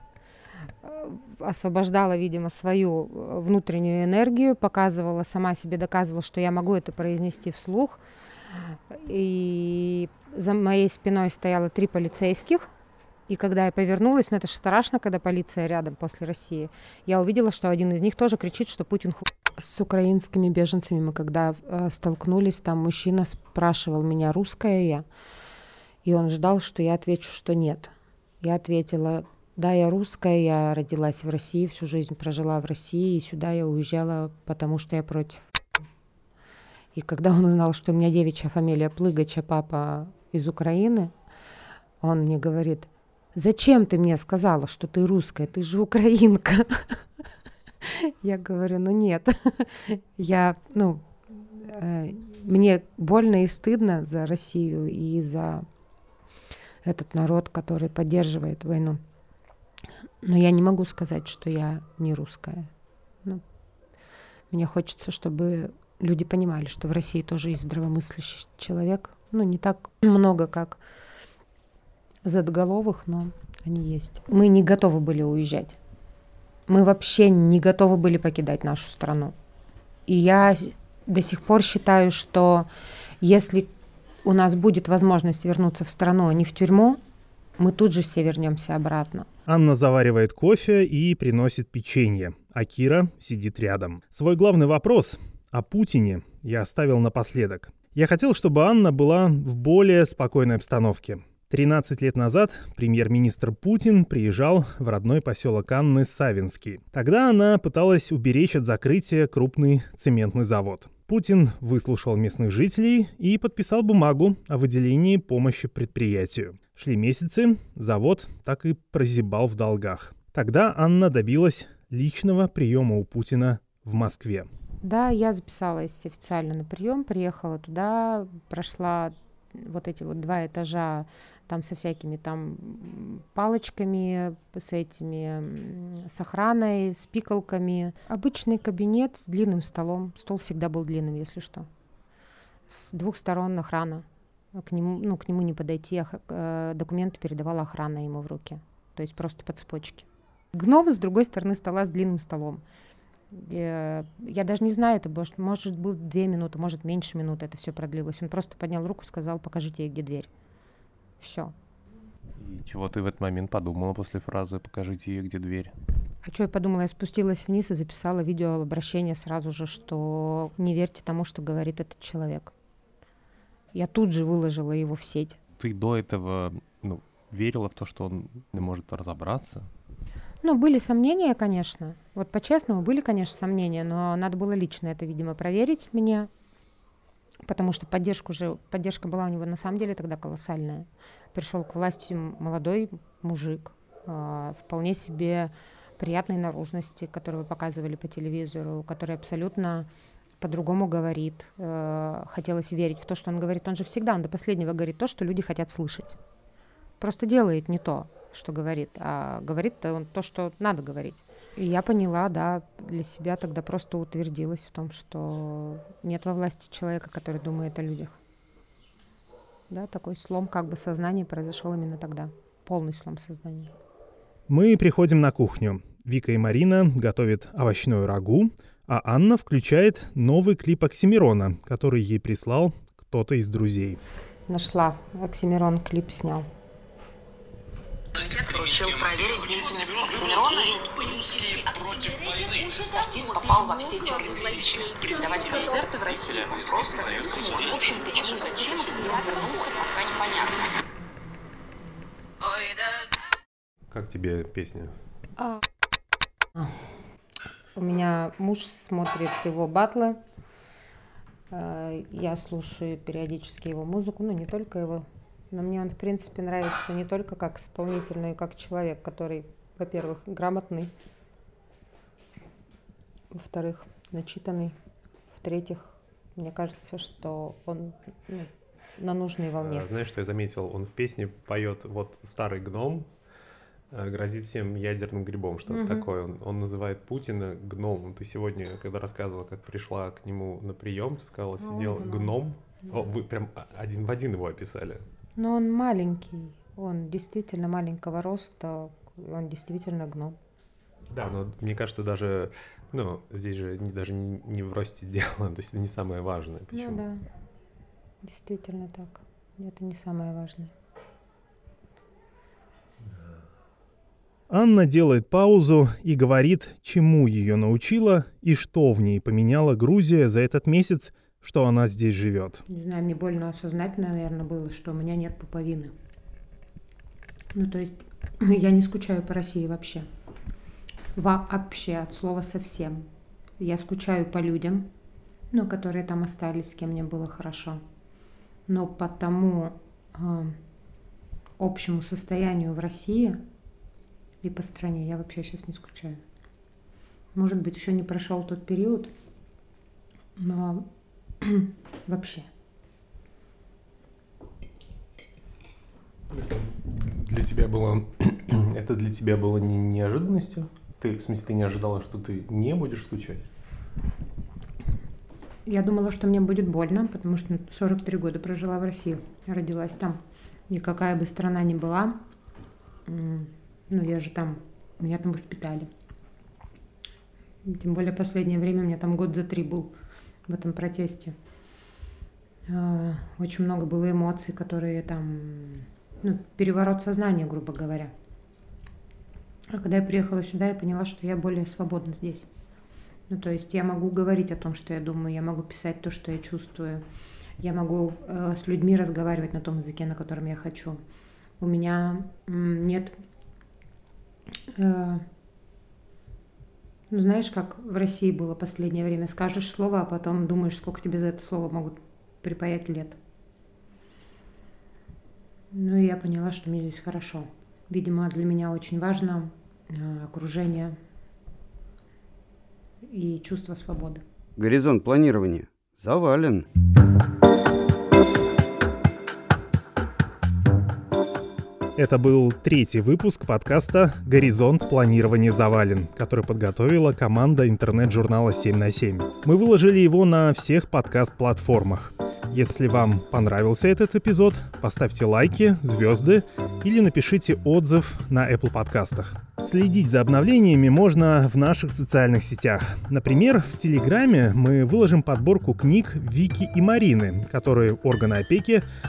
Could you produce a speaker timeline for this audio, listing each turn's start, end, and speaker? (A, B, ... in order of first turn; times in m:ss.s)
0:00.8-0:08.0 A
0:08.9-0:12.7 A
0:13.3-0:25.1 A
0:26.0-0:35.4 A
0:37.0-0:41.1 A
0:42.0-0:47.1 A
0:47.8-0:55.6 A
0:56.8-0:59.0 A
1:00.2-1:02.7 A
1:04.5-1:10.8 A
1:12.2-1:15.8 A
1:16.7-1:19.4 A
1:20.1-1:22.7 A
1:23.2-1:23.7 A
1:24.2-1:27.0 A
1:27.6-1:29.3 A
1:29.5-2:04.5 B
2:04.8-2:21.7 A
2:22.7-2:32.6 A
2:33.3-2:40.3 A
2:41.2-2:41.5 A
2:42.4-2:45.7 C
2:46.2-2:52.5 A
2:53.7-2:55.4 A
2:55.6-2:59.7 C
3:00.4-3:06.3 A
3:07.5-3:19.9 A
3:20.4-3:26.2 A
3:27.0-3:38.2 A
3:39.7-3:43.7 A
3:44.5-3:54.0 B
3:54.5-3:56.5 A
3:58.2-4:10.8 D
4:12.4-4:13.2 D
4:13.9-4:14.9 C
4:15.4-4:15.6 A
4:17.8-4:20.2 A
4:21.5-4:30.9 A
4:33.3-4:34.8 A
4:35.3-4:39.9 A
4:39.6-4:43.1 C
4:43.9-4:55.0 C
4:45.7-4:46.1 A
4:51.6-4:52.4 A
4:55.4-5:00.4 A
5:01.1-5:07.0 C
5:06.7-5:07.2 A
5:08.2-5:10.7 A
5:14.5-5:22.6 B
5:22.7-5:25.9 A
5:27.5-5:30.1 A
5:31.2-5:33.1 A
5:33.6-5:34.9 A
5:35.5-5:37.8 A
5:38.7-5:40.6 A
5:41.6-5:43.4 A
5:44.4-5:46.2 A
5:47.3-5:49.1 A
5:50.4-5:50.9 A
5:51.4-5:52.5 A
5:56.3-6:03.5 C
6:05.7-6:12.2 A
6:13.1-6:15.9 A
6:17.6-6:19.9 A
6:20.5-6:21.4 A
6:22.7-6:28.1 A
6:29.7-6:32.5 A
6:33.3-6:37.0 A
6:37.6-6:41.0 A
6:41.6-6:43.2 A
6:44.7-6:45.3 A
6:47.1-6:53.2 A
6:55.7-7:01.0 A
7:03.1-7:04.2 A
7:04.6-7:06.7 E
7:12.0-7:38.8 B